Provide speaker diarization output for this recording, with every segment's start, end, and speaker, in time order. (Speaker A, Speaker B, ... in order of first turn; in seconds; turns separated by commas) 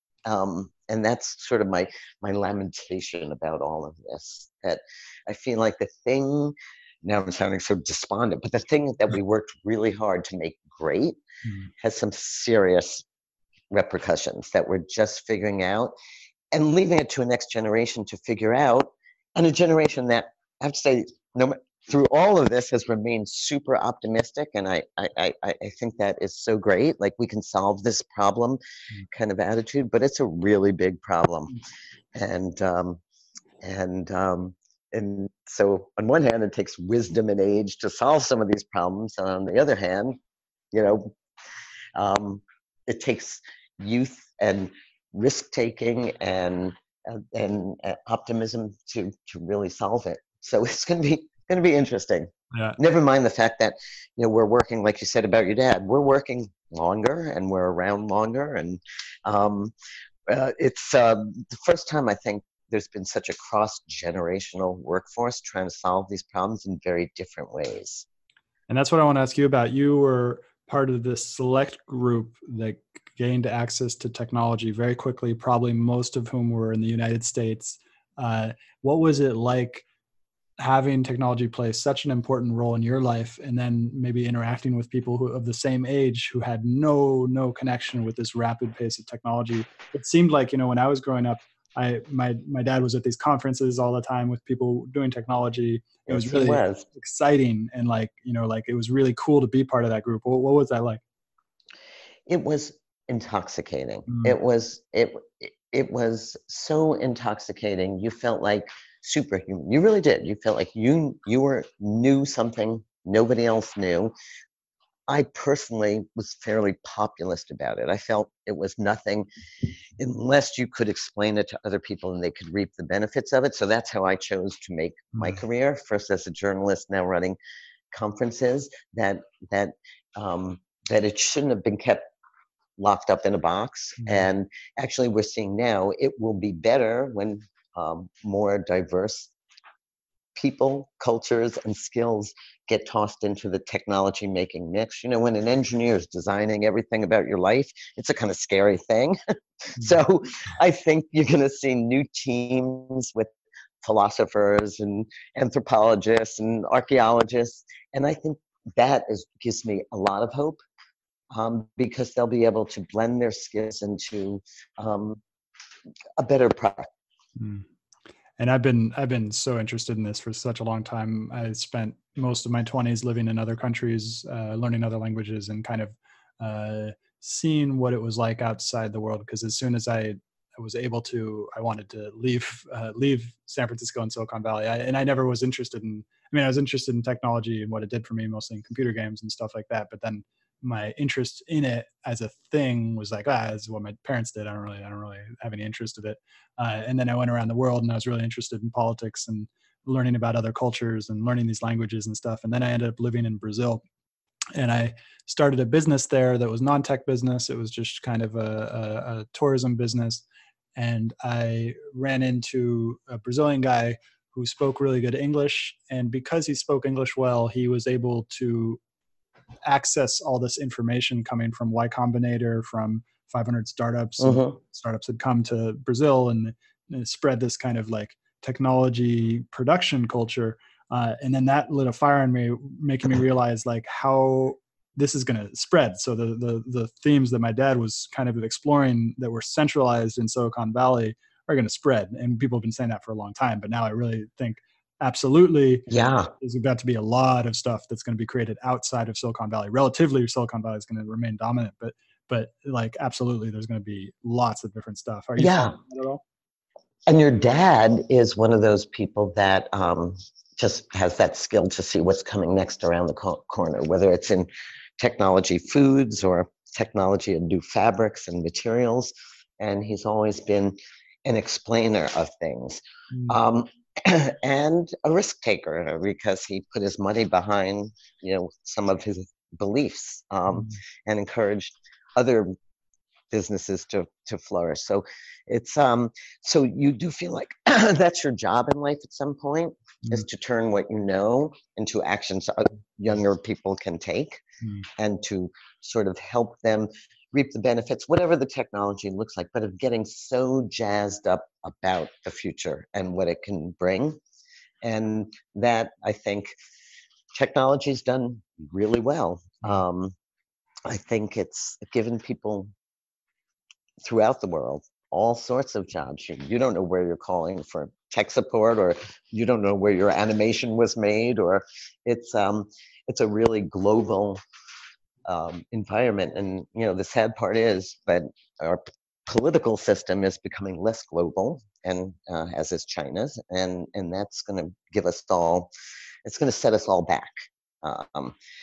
Speaker A: 0.3-11.2, Speaker B: 11.4-11.7, Speaker A: 11.8-13.1, Speaker A: 13.7-15.9, Speaker A: 16.5-31.6, Speaker A: 32.1-33.0, Speaker A: 33.6-40.2, Speaker A: 40.7-41.1, Speaker A: 42.0-59.7, Speaker B: 52.5-52.8, Speaker A: 60.3-68.1, Speaker B: 68.7-79.8, Speaker B: 80.6-101.0, Speaker A: 96.1-96.9, Speaker A: 102.3-114.1, Speaker B: 104.1-104.3, Speaker A: 115.1-119.3, Speaker A: 120.0-127.4, Speaker B: 125.1-125.4, Speaker A: 127.9-132.0, Speaker A: 132.8-139.3, Speaker B: 134.0-134.3, Speaker A: 140.3-153.3, Speaker A: 153.8-160.6, Speaker A: 161.3-165.2, Speaker A: 166.2-166.9, Speaker B: 167.4-167.7, Speaker B: 168.4-203.8, Speaker B: 204.6-210.2, Speaker B: 210.8-218.8, Speaker B: 219.6-245.9, Speaker A: 224.2-224.6, Speaker A: 245.9-246.3, Speaker B: 246.4-256.2, Speaker A: 255.4-255.8, Speaker A: 257.1-282.5, Speaker B: 273.1-273.4, Speaker B: 280.5-280.8, Speaker A: 283.3-294.4, Speaker B: 294.6-294.9, Speaker A: 295.0-304.2, Speaker A: 304.8-306.6, Speaker A: 307.3-310.1, Speaker A: 310.9-312.7, Speaker A: 314.0-324.4, Speaker A: 325.3-335.7, Speaker A: 336.2-338.4